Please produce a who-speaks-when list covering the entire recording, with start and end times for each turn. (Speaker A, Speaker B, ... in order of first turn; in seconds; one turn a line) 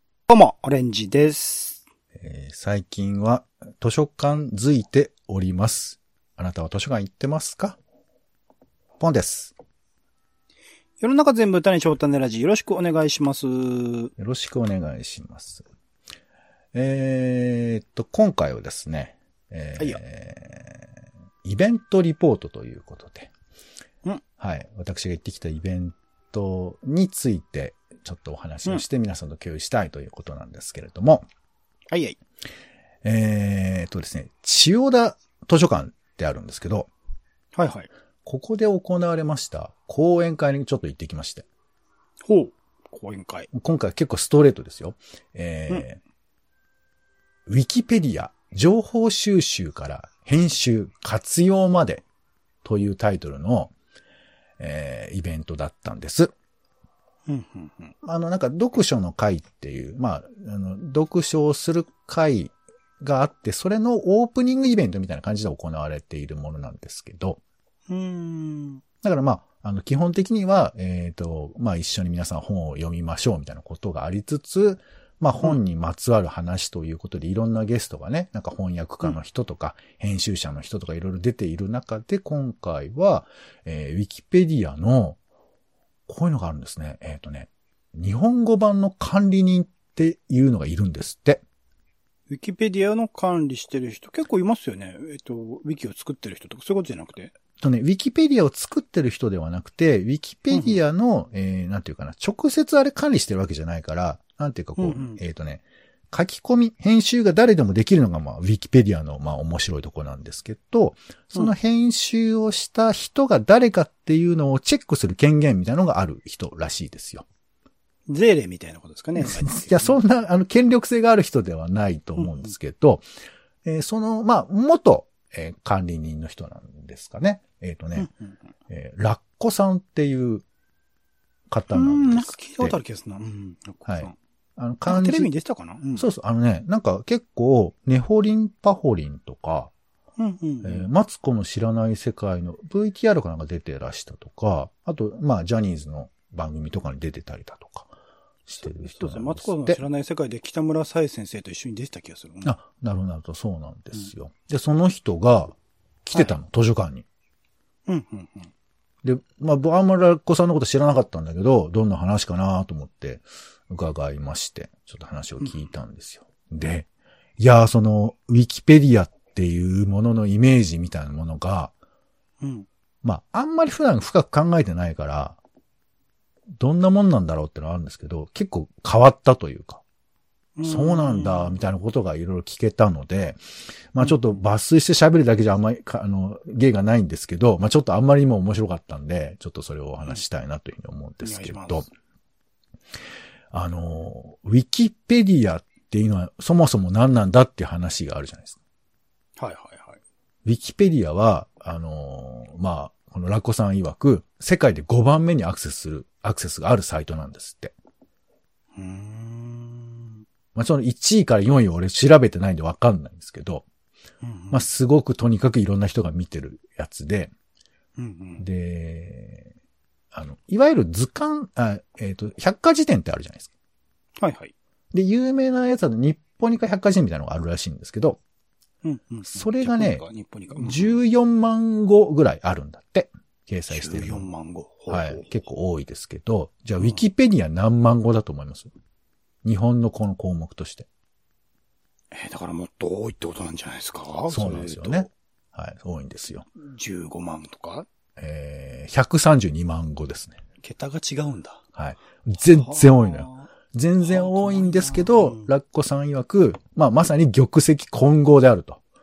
Speaker A: 0.3-1.8
Speaker B: 2.1-7.8
Speaker B: 9.0-9.5
Speaker A: 11.0-14.1
Speaker B: 14.2-15.7
Speaker B: 16.7-20.9
Speaker B: 21.4-23.3
Speaker B: 24.4-31.2
Speaker A: 31.9-32.2
Speaker B: 33.0-36.9
Speaker A: 37.5-37.9
Speaker B: 38.2-41.5
Speaker A: 42.2-43.5
Speaker B: 43.5-46.0
Speaker B: 47.5-52.0
Speaker B: 52.6-53.7
Speaker B: 54.6-56.3
Speaker A: 57.3-57.9
Speaker B: 58.0-67.4
Speaker A: 67.9-68.8
Speaker B: 69.0-85.2
Speaker B: 86.1-91.4
Speaker A: 92.3-97.3
Speaker B: 97.6-117.2
Speaker A: 100.5-100.8
Speaker A: 104.8-105.2
Speaker A: 118.1-120.0
Speaker B: 119.2-123.0
Speaker A: 122.2-122.5
Speaker B: 123.6-128.1
Speaker A: 128.0-128.3
Speaker B: 128.7-130.4
Speaker B: 131.5-132.8
Speaker A: 131.7-134.1
Speaker B: 133.8-135.3
Speaker A: 134.8-136.1
Speaker B: 135.9-139.7
Speaker A: 140.2-140.9
Speaker B: 140.6-147.9
Speaker B: 148.5-149.8
Speaker A: 148.6-152.5
Speaker B: 152.4-157.0
Speaker A: 157.9-158.5
Speaker B: 159.0-166.9
Speaker A: 165.4-165.7
Speaker B: 167.4-171.7
Speaker A: 172.4-172.7
Speaker B: 173.0-175.4
Speaker B: 176.6-179.8
Speaker A: 180.6-181.6
Speaker B: 180.7-183.4
Speaker B: 183.9-191.8
Speaker A: 184.0-184.4
Speaker A: 191.2-191.9
Speaker B: 193.5-198.6
Speaker A: 199.4-200.0
Speaker B: 200.4-207.7
Speaker A: 208.7-210.2
Speaker B: 210.5-213.6
Speaker A: 214.2-214.7
Speaker B: 214.5-217.3
Speaker A: 218.0-218.4
Speaker B: 218.4-219.5
Speaker B: 220.1-223.5
Speaker A: 224.2-224.5
Speaker B: 224.9-228.2
Speaker A: 228.8-231.0
Speaker B: 229.3-230.0
Speaker B: 230.5-234.2
Speaker A: 233.7-235.3
Speaker B: 234.9-238.7
Speaker B: 239.4-240.9
Speaker A: 242.1-245.1
Speaker B: 244.3-246.4
Speaker A: 246.5-247.9
Speaker B: 248.2-250.4
Speaker A: 250.6-251.6
Speaker B: 251.7-258.8
Speaker A: 252.4-253.5
Speaker A: 254.0-255.5